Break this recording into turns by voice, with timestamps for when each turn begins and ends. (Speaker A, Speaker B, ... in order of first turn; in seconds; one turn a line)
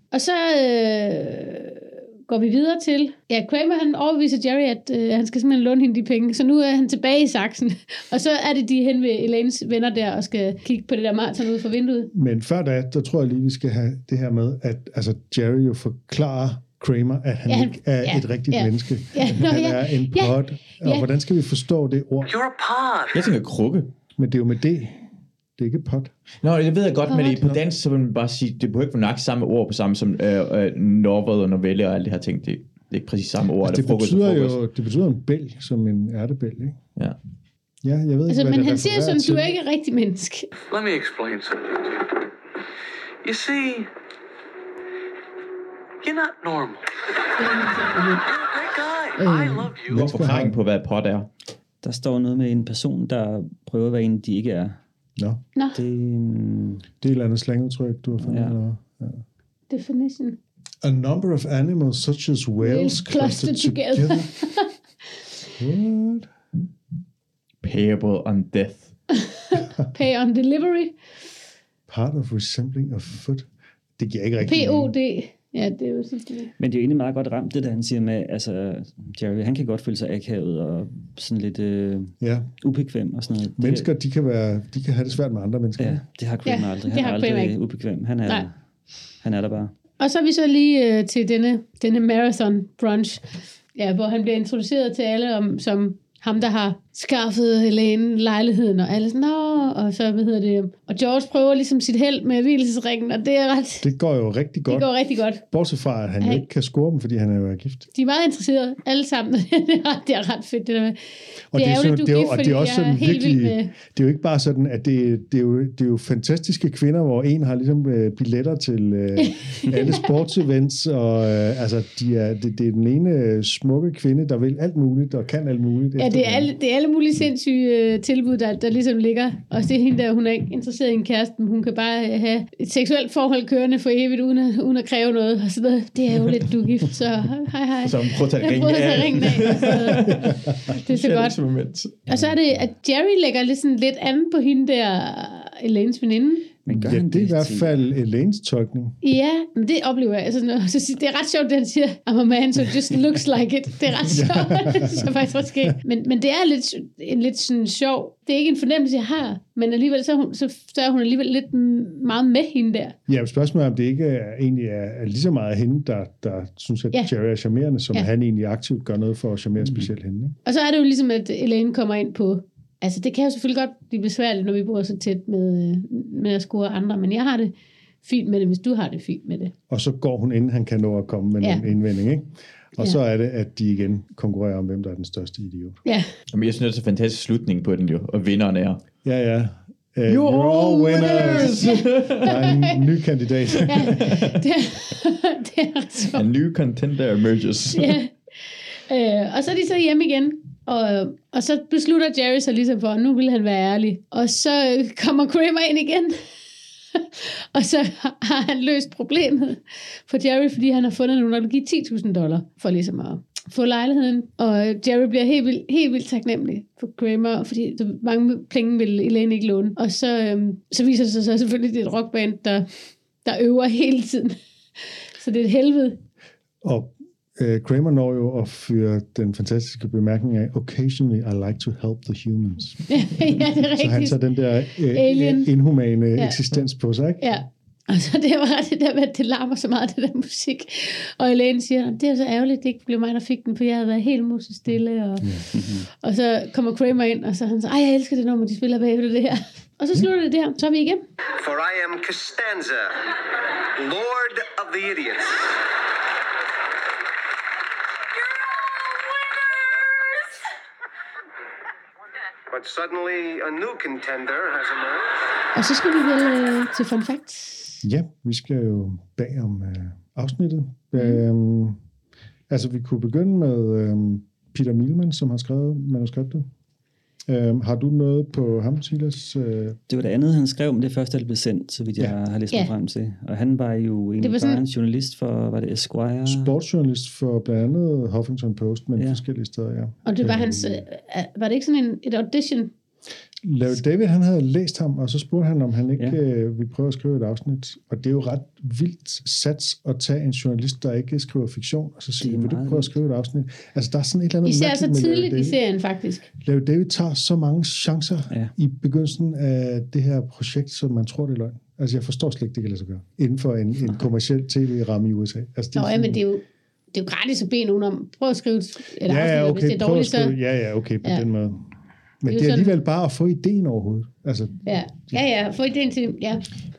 Speaker A: 0.1-12.1
Speaker B: 12.1-22.3
Speaker A: 17.5-21.1
Speaker C: 22.2-23.4
Speaker D: 23.1-23.9
Speaker B: 24.2-26.1
Speaker D: 26.4-34.6
Speaker A: 27.1-27.4
Speaker B: 33.6-36.8
Speaker B: 37.8-39.5
Speaker A: 38.3-40.5
Speaker C: 40.7-42.2
Speaker C: 43.2-43.9
Speaker C: 46.0-46.9
Speaker A: 47.4-48.3
Speaker C: 48.2-50.1
Speaker A: 49.2-49.7
Speaker B: 49.9-50.6
Speaker D: 49.9-51.3
Speaker E: 51.8-54.8
Speaker B: 55.2-55.4
Speaker E: 55.7-56.8
Speaker B: 57.0-59.2
Speaker E: 58.2-58.5
Speaker A: 59.7-60.4
Speaker B: 60.8-64.4
Speaker A: 62.6-64.7
Speaker B: 65.6-66.3
Speaker D: 67.6-68.9
Speaker A: 69.1-71.0
Speaker B: 71.9-73.5
Speaker B: 74.0-74.9
Speaker A: 74.4-76.5
Speaker E: 76.6-83.9
Speaker B: 82.2-82.5
Speaker B: 83.6-86.0
Speaker E: 85.8-88.5
Speaker A: 86.4-87.6
Speaker E: 89.2-89.7
Speaker A: 90.0-93.2
Speaker A: 93.7-103.9
Speaker B: 103.8-104.9
Speaker A: 104.7-105.4
Speaker B: 105.4-107.9
Speaker A: 107.9-111.0
Speaker B: 111.5-126.5
Speaker A: 111.5-113.7
Speaker A: 119.2-120.1
Speaker A: 126.0-140.3
Speaker D: 137.8-142.0
Speaker A: 140.8-141.4
Speaker A: 142.1-146.5
Speaker E: 146.7-147.8
Speaker B: 146.7-149.0
Speaker A: 149.0-162.9
Speaker B: 154.1-155.7
Speaker B: 163.1-170.3
Speaker E: 169.6-169.9
Speaker A: 170.4-177.5
Speaker A: 178.0-179.5
Speaker B: 179.7-185.8
Speaker D: 186.3-188.8
Speaker B: 189.0-194.2
Speaker D: 190.1-192.4
Speaker A: 191.2-192.8
Speaker A: 193.6-196.3
Speaker D: 196.1-197.9
Speaker A: 197.7-198.1
Speaker A: 198.8-206.2
Speaker A: 206.9-222.7
Speaker A: 223.2-224.4
Speaker A: 225.2-226.0
Speaker B: 226.6-232.8
Speaker A: 232.9-234.2
Speaker B: 233.7-237.2
Speaker A: 234.8-235.5
Speaker A: 237.2-251.0
Speaker B: 245.2-245.4
Speaker E: 245.5-245.9
Speaker F: 251.4-253.1
Speaker F: 253.8-255.6
Speaker F: 262.5-265.2
Speaker A: 265.5-267.8
Speaker B: 267.8-271.8
Speaker A: 270.9-271.2
Speaker B: 272.5-276.5
Speaker B: 277.3-279.8
Speaker E: 279.9-286.5
Speaker A: 284.2-284.6
Speaker B: 286.2-290.8
Speaker A: 290.0-292.7
Speaker B: 293.4-305.6
Speaker E: 302.2-302.9
Speaker A: 304.4-306.3
Speaker B: 306.4-316.2
Speaker A: 315.7-320.4
Speaker B: 319.0-321.7
Speaker B: 322.2-325.2
Speaker A: 322.3-322.7
Speaker A: 324.6-326.4